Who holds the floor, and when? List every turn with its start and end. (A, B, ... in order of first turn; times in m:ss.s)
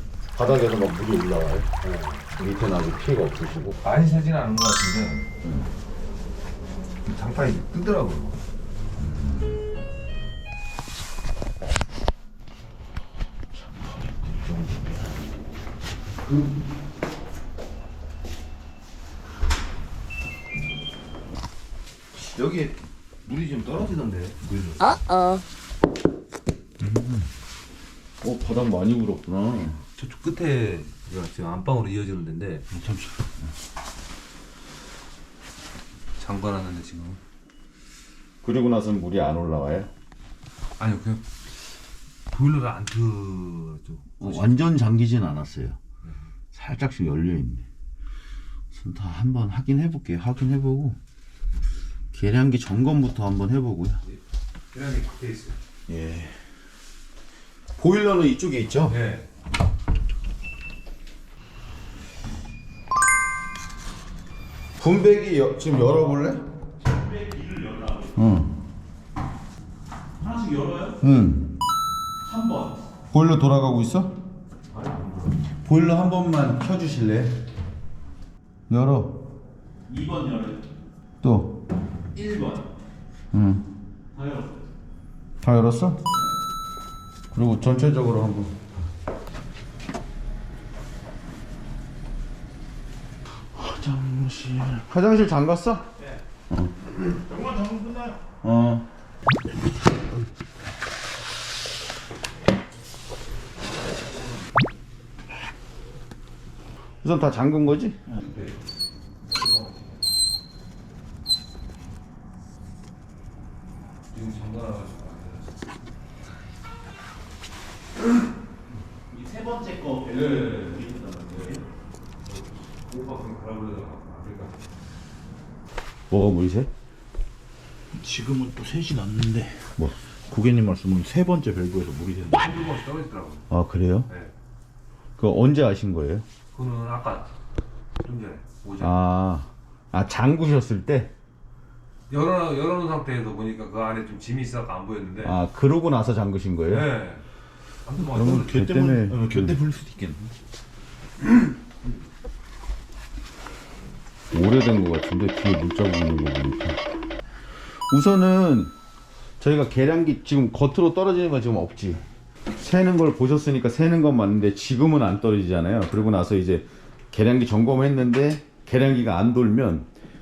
0:00.4-0:01.7 A
0:01.8-0:02.3 B
0:02.4-0:03.8 A
0:03.8-0:05.3 B
0:07.0-0:08.4 B
0:09.0-0:09.4 A
0:22.3-0:22.7 B
0:23.2-0:24.9 B
0:26.8-0:27.2 A
0:28.2-0:29.8 A
0:30.0-0:32.7 B
0:32.7-0:33.3 A
0:36.2-0:37.2 B
0:38.4-0:39.9 A
0:40.8-0:41.3 B
0:42.3-0:44.5 B
0:44.2-0:45.8 A
0:46.5-0:47.7 A
0:48.7-0:51.0 A
0:52.1-0:54.0 A
0:54.7-0:55.6 B
0:55.9-0:56.4 A
0:57.8-0:59.0 A
0:58.9-0:59.2 B
1:04.8-1:06.4 A
1:07.1-1:08.1 C
1:08.2-1:08.6 A
1:10.2-1:10.9 C
1:11.0-1:11.6 A
1:12.3-1:12.8 C
1:13.1-1:14.2 A
1:14.7-1:15.2 B
1:15.6-1:17.5 A
1:18.7-1:19.2 A
1:19.9-1:20.6 C
1:21.2-1:21.6 A
1:22.2-1:22.6 C
1:23.3-1:23.7 A
1:24.2-1:24.5 C
1:25.4-1:26.0 A
1:27.3-1:28.7 A
1:33.5-1:35.9 A
1:37.3-1:38.2 C
1:38.4-1:38.9 A
1:47.0-1:48.0 A
1:48.2-1:48.6 B
1:49.3-1:49.9 B
1:54.1-1:55.6 B
1:59.1-2:00.3 C
2:00.0-2:01.6 B
2:02.3-2:04.7 B
2:06.1-2:06.7 A
2:07.9-2:09.8 C
2:10.3-2:12.5 C
2:12.3-2:13.5 B
2:13.5-2:14.1 A
2:15.2-2:16.2 A
2:16.5-2:17.3 B
2:18.0-2:19.0 B
2:18.8-2:21.1 A
2:22.1-2:25.4 B
2:25.2-2:26.9 A
2:26.7-2:27.2 B
2:27.8-2:28.9 B
2:28.1-2:29.6 A
2:28.2-2:30.3 C
2:34.3-2:36.8 A
2:37.9-2:38.7 A
2:39.4-2:42.0 A
2:42.6-2:49.9 A